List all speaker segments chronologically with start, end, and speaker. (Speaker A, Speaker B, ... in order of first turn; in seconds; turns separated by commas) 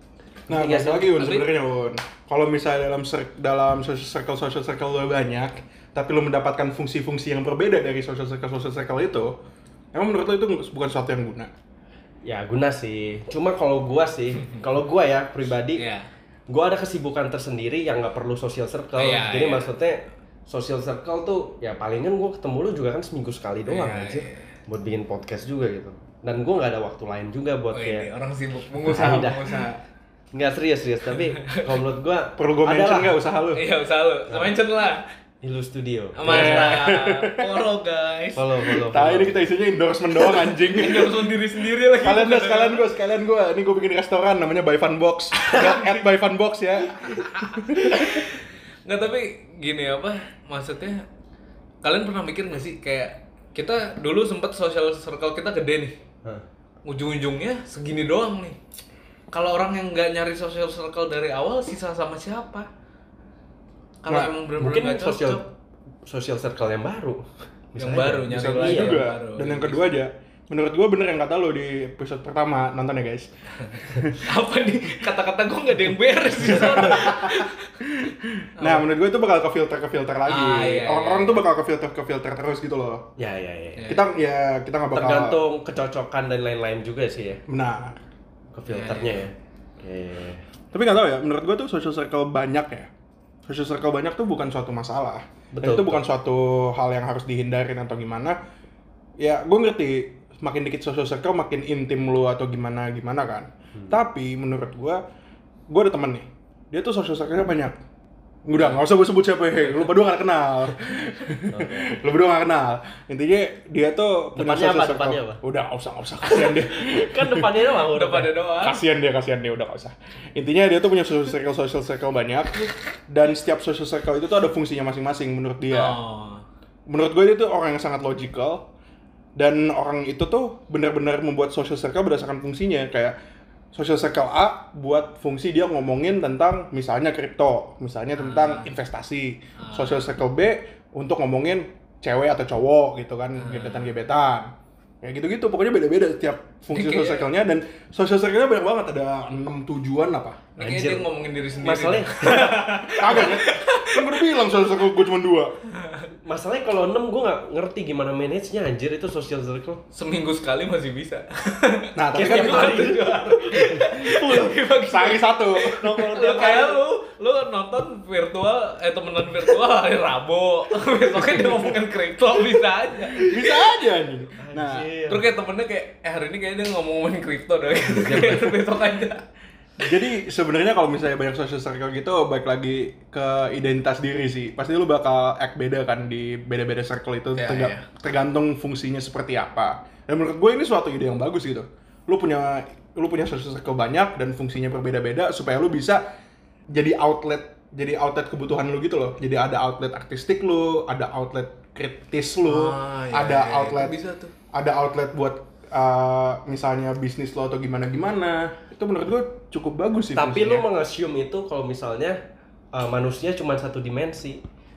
Speaker A: 0.5-1.4, Speaker B: 0.5-9.3, Speaker C: 1.2-1.4, Speaker B: 9.9-11.5, Speaker A: 12.2-15.8, Speaker C: 15.7-16.1, Speaker A: 16.5-28.1, Speaker C: 19.0-19.7, Speaker C: 23.7-24.4, Speaker C: 27.7-29.8, Speaker A: 28.9-29.7, Speaker A: 30.3-33.1, Speaker C: 31.4-31.7, Speaker B: 32.4-33.6, Speaker C: 33.5-35.0, Speaker A: 34.3-34.5, Speaker A: 35.4-36.8, Speaker C: 36.2-38.6, Speaker B: 36.2-37.5, Speaker A: 38.3-39.4, Speaker B: 38.8-48.2, Speaker C: 40.3-42.9, Speaker C: 45.4-46.0, Speaker C: 47.0-51.0, Speaker C: 51.8-56.0, Speaker C: 56.8-58.6, Speaker C: 59.3-62.7, Speaker C: 64.0-65.4, Speaker B: 64.1-64.3, Speaker A: 64.6-65.4, Speaker A: 66.0-67.2, Speaker A: 67.7-69.0, Speaker C: 67.8-69.8, Speaker B: 68.3-73.3, Speaker C: 73.7-77.7, Speaker B: 73.8-74.2, Speaker B: 76.4-83.1, Speaker A: 76.5-77.0, Speaker C: 78.6-78.9, Speaker C: 80.2-81.4, Speaker A: 83.2-83.9, Speaker B: 83.9-85.4, Speaker A: 84.9-87.4, Speaker B: 87.5-88.0, Speaker A: 88.5-90.4, Speaker C: 88.7-89.2, Speaker B: 90.7-92.9, Speaker B: 93.5-98.4, Speaker A: 95.5-96.0, Speaker B: 99.2-105.0, Speaker B: 105.7-107.8, Speaker B: 108.5-117.5, Speaker A: 111.5-112.0, Speaker A: 114.3-115.4, Speaker A: 116.3-118.3, Speaker C: 117.9-118.8, Speaker B: 118.6-126.0, Speaker C: 125.7-126.4, Speaker B: 126.9-128.7, Speaker B: 129.3-133.2, Speaker B: 133.7-144.5, Speaker C: 138.2-138.7, Speaker C: 139.6-140.1, Speaker C: 143.4-143.9, Speaker B: 145.0-150.4, Speaker C: 146.7-147.3, Speaker C: 150.6-154.3, Speaker A: 150.6-151.1, Speaker A: 151.6-152.9, Speaker B: 152.9-155.6, Speaker C: 155.8-156.1, Speaker A: 156.2-159.8, Speaker C: 159.9-173.7, Speaker B: 161.9-162.9, Speaker A: 162.1-164.4, Speaker B: 164.0-165.9, Speaker A: 165.7-166.8, Speaker B: 173.1-174.9, Speaker A: 174.4-175.3, Speaker C: 175.1-179.2, Speaker A: 177.8-178.6, Speaker B: 179.8-196.0, Speaker C: 187.3-187.8, Speaker B: 196.7-204.0, Speaker C: 202.4-204.3, Speaker B: 204.5-210.7, Speaker A: 210.1-212.2, Speaker A: 212.7-214.4